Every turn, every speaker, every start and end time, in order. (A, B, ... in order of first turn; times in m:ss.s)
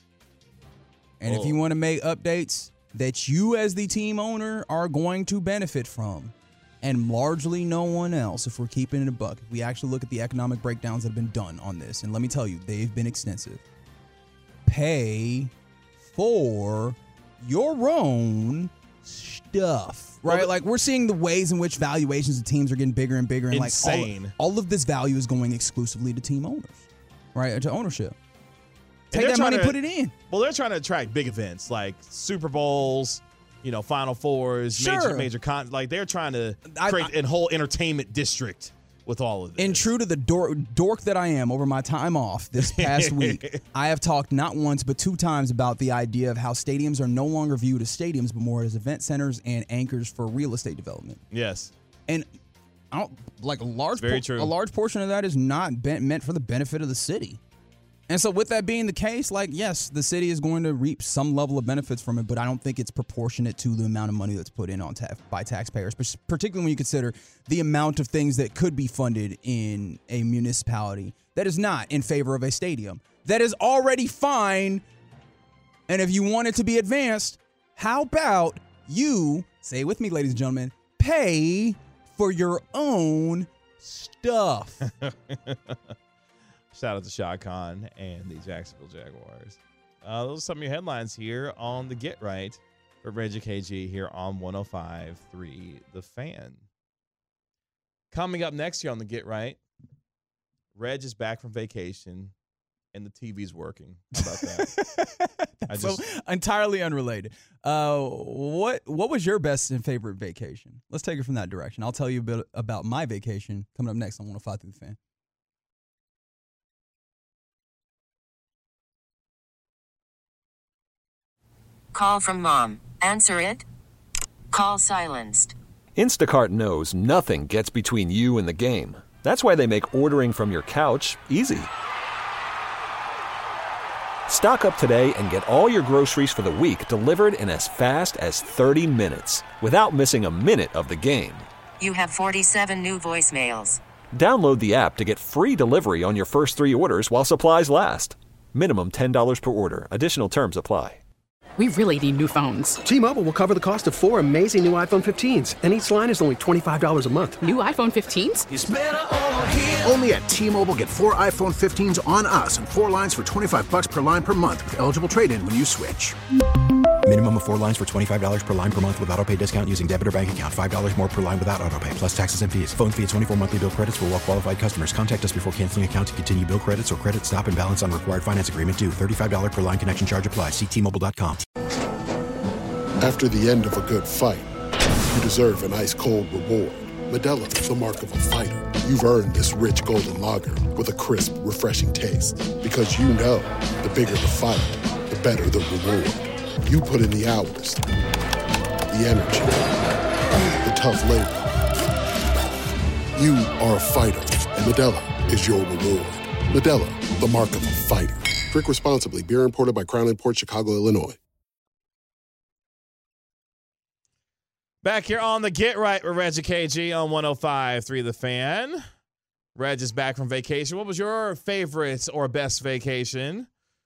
0:01.2-0:13.6 A
0:01.3-0:01.6 B
0:14.7-0:15.5 A
0:16.1-0:28.2 A
0:20.3-0:20.5 B
0:23.5-0:24.4 B
0:29.1-0:30.1 A
0:29.1-0:39.9 B
0:34.8-0:35.3 A
0:36.7-0:37.1 A
0:39.6-0:51.2 A
0:42.6-0:43.6 B
0:51.3-0:51.7 B
0:52.9-0:57.4 A
0:54.0-0:54.5 B
0:58.1-1:14.8 A
1:15.9-1:24.8 A
1:24.8-1:25.8 B
1:26.7-1:36.6 B
1:38.1-1:39.6 B
1:40.8-1:42.3 B
1:42.9-1:44.7 B
1:44.2-1:55.0 A
1:45.7-1:46.0 B
2:01.9-2:03.6 C
2:04.5-2:05.6 C
2:06.0-2:11.7 D
2:14.3-2:21.5 D
2:21.8-2:23.8 C
2:24.1-2:31.0 D
2:31.6-2:32.8 E
2:32.8-2:37.4 F
2:37.4-2:38.5 E
2:38.5-2:46.2 G
2:47.0-3:01.4 H
3:03.0-3:04.5 I
3:05.1-3:17.8 I
3:18.9-3:19.8 I
3:20.5-3:21.5 I
3:23.2-3:31.2 I
3:34.8-3:38.8 B
3:39.6-3:43.5 B